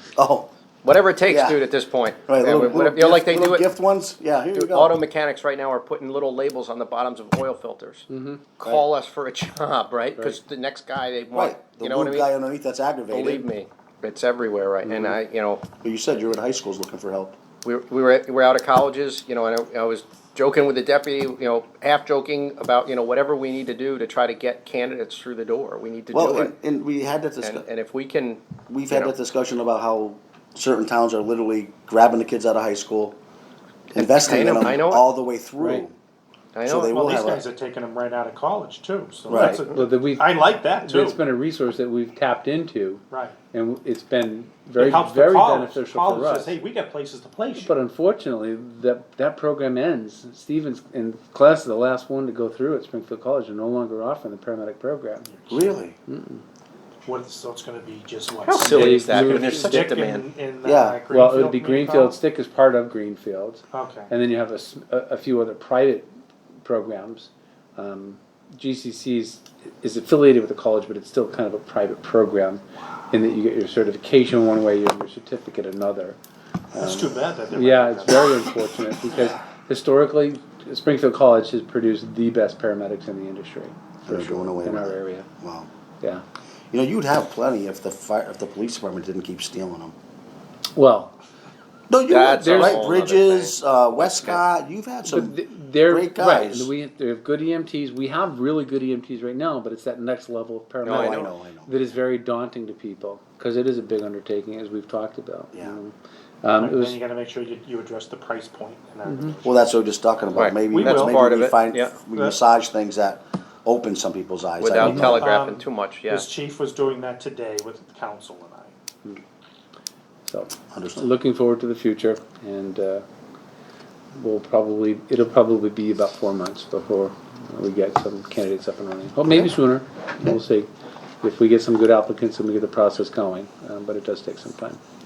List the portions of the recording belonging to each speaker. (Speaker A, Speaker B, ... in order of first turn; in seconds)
Speaker A: 0.2-0.5, 1.3-1.6, 2.3-5.0, 11.3-13.5, 15.8-17.4, 26.1-27.6, 28.7-33.2, 33.9-35.9, 36.7-37.4, 39.3-39.6, 55.5-56.0, 60.6-61.0, 76.7-77.3, 84.1-85.7, 86.7-90.0, 91.9-95.4, 95.9-96.7, 100.9-101.7, 105.5-105.8, 109.4-115.3, 120.7-121.1
Speaker B: 0.8-3.6, 4.5-12.3, 13.1-15.6, 17.6-26.5, 27.4-29.1, 33.9-35.0, 36.5-36.9, 58.5-60.3, 92.1-94.4, 100.8-101.3, 110.3-111.9, 114.6-116.3
Speaker C: 8.1-8.5, 14.8-15.2, 35.6-35.9, 39.4-46.5, 47.6-55.3, 56.1-56.4, 58.6-59.9, 61.1-66.1, 66.6-76.2, 77.5-85.3, 90.8-91.1, 92.2-92.8, 95.0-107.0, 109.1-109.3, 120.3-123.0, 124.2-130.7, 131.2-134.8
Speaker D: 36.8-41.2, 43.1-43.4, 44.8-47.8, 55.3-55.8, 57.1-62.2, 63.7-64.1, 76.8-78.5, 106.6-109.6, 110.7-111.2, 112.1-112.4, 115.0-118.7